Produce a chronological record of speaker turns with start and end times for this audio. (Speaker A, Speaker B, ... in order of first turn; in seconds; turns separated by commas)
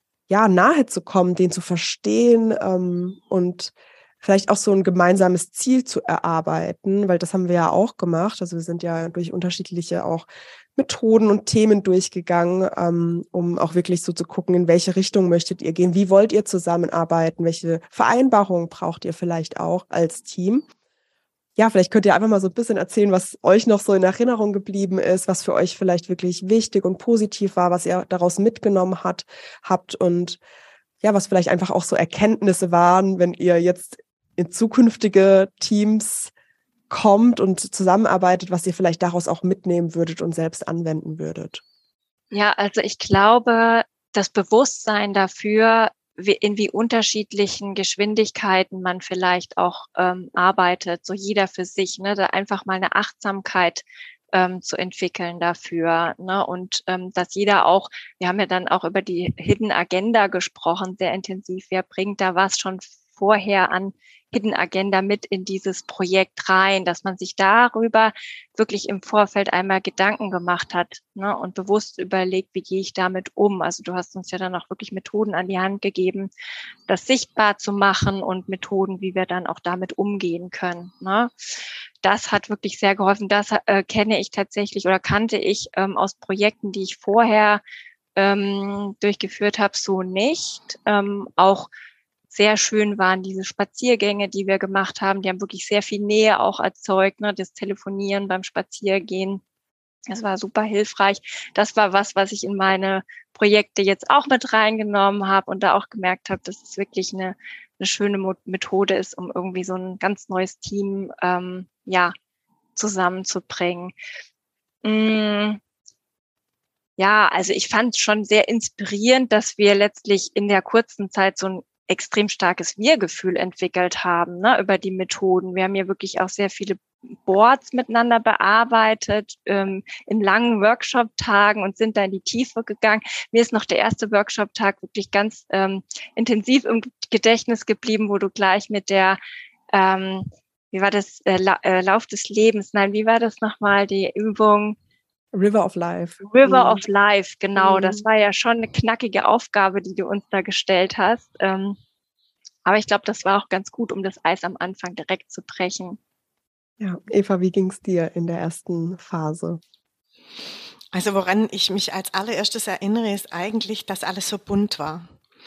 Speaker A: 0.3-20.6, Speaker A: 21.6-30.4, Speaker A: 31.0-36.3, Speaker A: 36.9-41.6, Speaker B: 42.3-76.3, Speaker B: 76.9-81.3, Speaker B: 82.0-87.6, Speaker B: 88.2-91.7, Speaker B: 92.3-99.4, Speaker B: 100.1-112.1, Speaker B: 112.8-113.9, Speaker B: 114.8-115.6, Speaker B: 117.0-139.2, Speaker B: 139.7-144.8, Speaker A: 145.3-146.8, Speaker B: 146.2-151.8, Speaker A: 147.6-148.0, Speaker B: 152.6-156.0, Speaker A: 156.8-159.6, Speaker C: 160.9-165.1